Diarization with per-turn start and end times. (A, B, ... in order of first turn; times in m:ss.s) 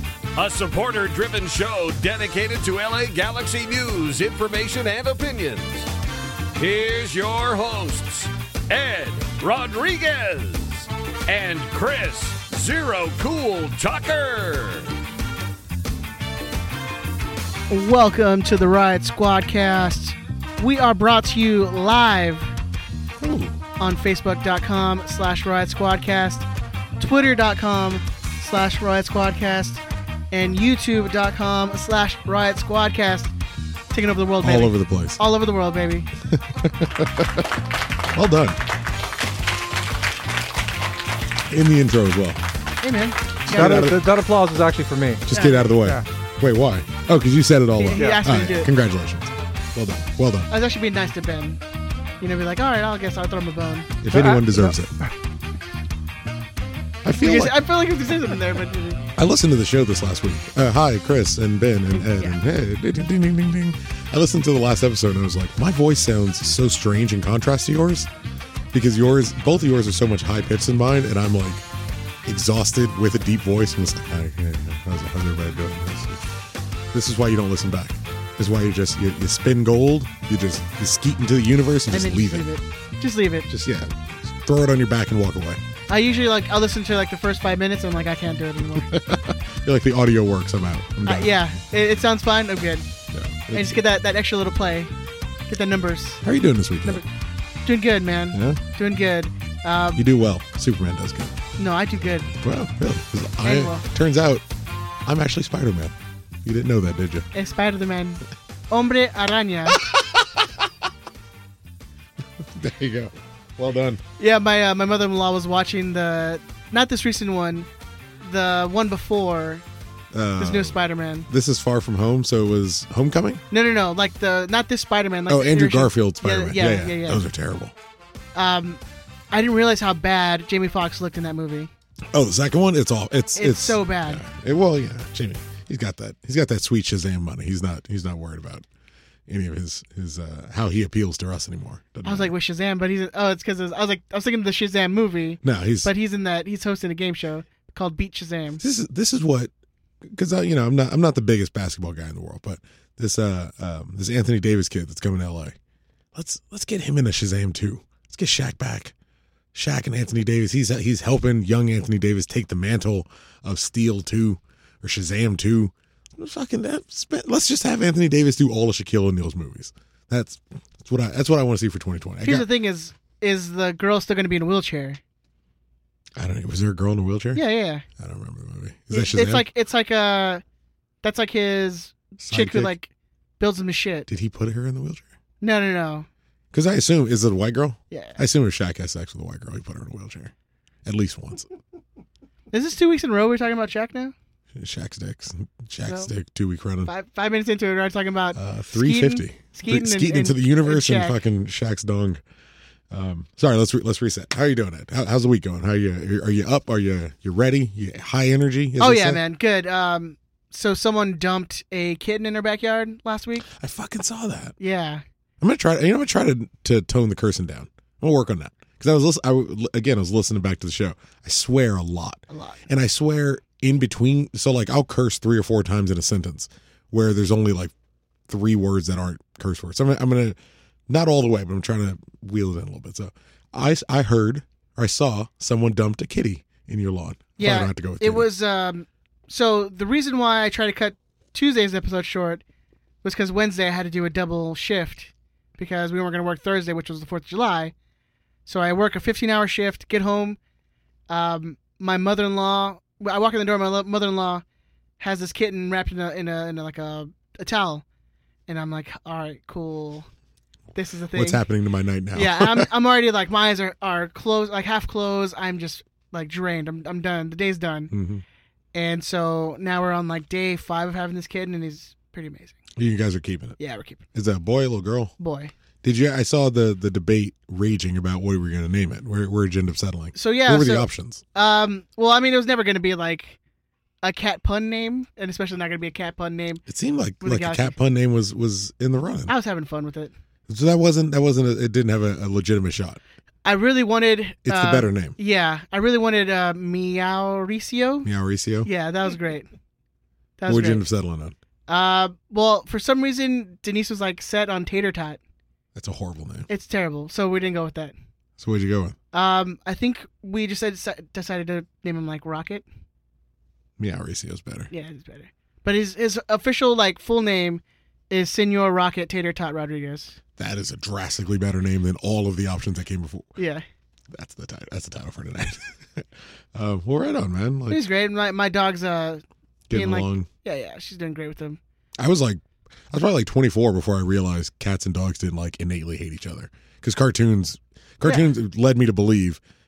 0:00.4-0:05.9 A
0:06.6-0:14.9 A
0:17.7-0:22.5 B
0:23.2-0:23.6 C
0:23.8-0:26.5 B
0:27.0-0:33.3 B
0:33.9-0:36.1 B
0:34.4-0:35.2 C
0:36.3-0:37.5 C
0:38.1-0:38.6 C
0:41.5-0:42.4 C
0:42.8-0:43.9 B
0:43.5-0:44.0 C
0:43.5-0:45.2 D
0:45.2-0:50.5 C
0:45.3-0:45.8 B
0:47.8-0:48.7 B
0:48.0-0:48.2 D
0:50.5-0:51.6 B
0:52.2-0:54.0 B
0:54.0-0:55.0 C
0:54.1-0:54.7 D
0:57.0-0:57.6 C
0:57.2-0:59.0 B
0:59.2-1:08.1 C
1:01.9-1:02.4 B
1:08.7-1:11.6 C
1:12.2-1:16.3 C
1:16.9-1:22.4 C
1:21.9-1:23.5 B
1:23.5-1:25.6 C
1:25.9-1:28.9 B
1:28.8-1:31.3 C
1:31.0-1:32.9 B
1:33.1-1:33.8 C
1:33.5-1:34.9 B
1:35.5-1:36.2 B
1:36.2-1:37.0 C
1:37.6-1:40.1 B
1:38.3-1:38.6 C
1:39.9-1:41.3 C
1:41.6-1:42.3 B
1:42.4-1:44.4 C
1:43.4-1:43.8 B
1:45.0-1:47.3 C
1:47.3-1:49.9 B
1:49.7-1:50.7 C
1:52.4-1:54.0 C
1:54.2-1:57.7 B
1:58.2-1:59.6 B
2:00.1-2:00.8 C
2:00.4-2:01.3 B
2:01.3-2:03.4 C
2:03.5-2:07.2 B
2:05.3-2:07.7 C
2:08.3-2:11.7 B
2:12.1-2:18.6 C
2:13.4-2:14.2 B
2:19.3-2:22.3 C
2:22.0-2:28.6 B
2:25.4-2:25.9 C
2:28.6-2:29.5 C
2:30.0-2:35.6 C
2:36.1-2:38.9 C
2:39.5-2:52.5 C
2:52.2-2:55.0 B
2:56.2-2:57.4 C
2:57.3-2:57.8 B
2:58.0-2:59.5 C
2:58.9-3:00.4 B
3:01.0-3:04.1 B
3:02.2-3:02.7 C
3:04.1-3:05.0 C
3:05.4-3:06.1 B
3:06.5-3:10.3 C
3:07.9-3:08.2 B
3:10.8-3:11.5 C
3:12.5-3:14.1 B
3:14.5-3:16.9 C
3:15.8-3:16.1 B
3:16.8-3:21.2 B
3:18.4-3:22.2 C
3:22.9-3:29.2 C
3:28.8-3:33.4 B
3:33.4-3:34.6 C
3:34.6-3:35.0 B
3:35.4-3:47.7 C
3:42.3-3:42.6 B
3:48.3-3:50.4 C
3:50.9-3:58.3 C
3:57.4-4:02.4 B
4:03.0-4:07.7 B
4:08.4-4:10.4 B
4:11.1-4:14.4 B
4:15.0-4:17.8 B
4:18.5-4:20.1 B
4:20.7-4:21.4 B
4:21.1-4:22.7 C
4:22.1-4:27.9 B
4:27.9-4:28.2 C
4:28.7-4:32.6 B
4:32.8-4:33.6 C
4:33.6-4:34.0 B
4:34.1-4:35.1 C
4:35.2-4:35.5 B
4:35.8-4:41.2 C
4:40.1-4:43.4 B
4:44.0-4:46.6 B
4:46.7-4:49.3 C
4:47.2-4:47.8 B
4:49.3-4:50.1 B
4:50.5-4:53.0 C
4:53.4-4:58.1 B
4:54.4-4:55.1 C
4:58.0-4:58.7 C
4:58.6-4:59.5 B
5:00.4-5:00.8 B
5:00.5-5:01.3 C
5:01.7-5:05.2 B
5:05.7-5:06.5 C
5:06.5-5:07.9 B
5:08.4-5:09.0 C
5:09.1-5:12.6 B
5:13.8-5:14.7 C
5:14.7-5:20.2 B
5:20.4-5:23.3 C
5:23.4-5:23.6 B
5:24.1-5:27.8 C
5:27.7-5:31.6 B
5:29.7-5:30.3 C
5:32.0-5:39.4 C
5:38.0-5:38.3 B